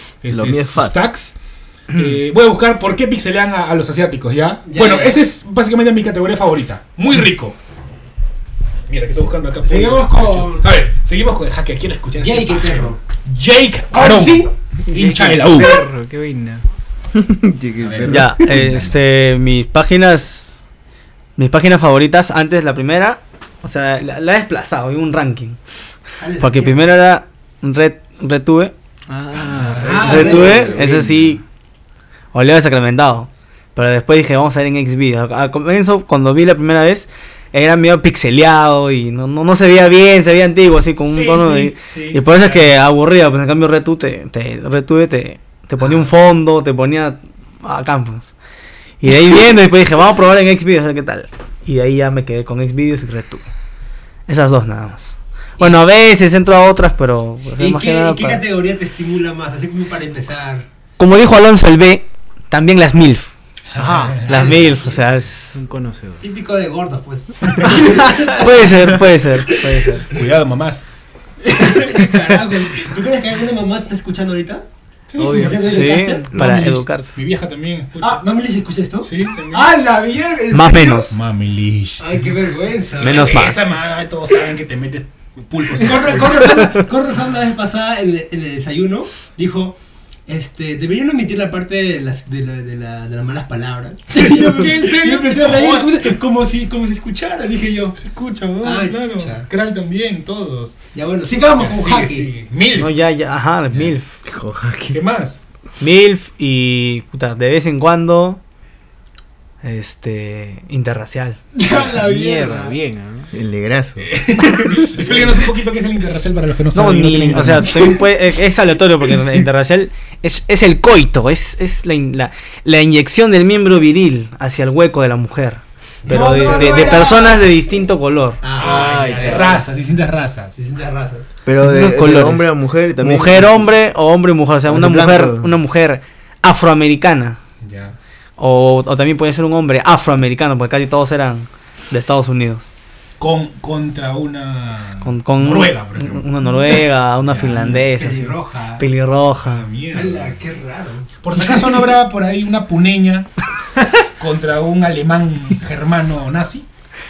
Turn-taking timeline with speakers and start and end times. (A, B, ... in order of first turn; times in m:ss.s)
0:00.2-0:01.4 A
0:00.3-0:01.1 B
0:01.9-0:07.6 A
0:04.6-0:05.2 C
0:08.9-0:15.8 A
0:09.5-0:10.7 C
0:12.2-0:13.0 C
0:13.9-0:14.5 C
0:14.9-0:16.6 D
0:17.2-0:18.4 B
0:17.8-0:19.0 A
0:18.0-0:20.6 E
0:21.4-0:25.6 E
0:26.2-0:26.8 C
0:26.4-0:28.7 E
0:29.1-0:30.5 D
0:29.4-0:30.9 A
0:29.8-0:30.9 C
0:30.0-0:31.4 E
0:32.3-0:48.4 E
0:41.0-0:42.7 A
0:49.0-0:53.5 E
0:54.3-0:58.4 E
0:57.6-1:00.7 C
1:01.0-1:03.3 E
1:03.8-1:04.5 A
1:03.8-1:04.3 D
1:04.2-1:05.1 C
1:04.2-1:05.6 E
1:05.5-1:06.2 D
1:06.2-1:09.0 C
1:08.0-1:10.0 E
1:10.1-1:10.8 A
1:11.4-1:14.6 C
1:15.1-1:15.7 A
1:15.2-1:15.6 D
1:15.3-1:16.5 C
1:15.5-1:17.2 E
1:16.3-1:18.3 A
1:18.0-1:21.1 C
1:19.0-1:19.7 A
1:20.5-1:21.2 E
1:21.1-1:22.2 A
1:22.0-1:23.4 C
1:23.0-1:26.7 A
1:23.0-1:23.6 E
1:25.8-1:29.8 C
1:30.3-1:38.0 C
1:34.1-1:36.0 A
1:38.0-1:40.8 A
1:38.6-1:39.5 C
1:40.9-1:42.3 C
1:41.3-1:42.9 A
1:42.8-1:44.1 E
1:44.3-1:45.0 B
1:44.9-1:45.4 A
1:45.8-1:48.4 E
1:49.6-1:51.4 E
1:51.6-1:52.8 C
1:51.8-1:53.3 D
1:53.3-1:54.1 B
1:54.0-1:58.0 A
1:55.0-1:55.3 C
1:56.7-2:08.4 E
2:06.1-2:07.6 C
2:08.4-2:09.7 C
2:08.5-2:10.6 A
2:08.6-2:09.6 D
2:10.6-2:11.3 C
2:11.5-2:13.7 B
2:11.6-2:17.4 E
2:14.7-2:15.5 B
2:17.6-2:18.0 A
2:18.4-2:22.7 E
2:23.2-2:26.3 A
2:25.0-2:29.6 E
2:27.3-2:27.8 A
2:27.9-2:28.8 C
2:29.4-2:30.4 A
2:29.9-2:31.7 C
2:31.2-2:33.3 A
2:34.2-2:36.6 A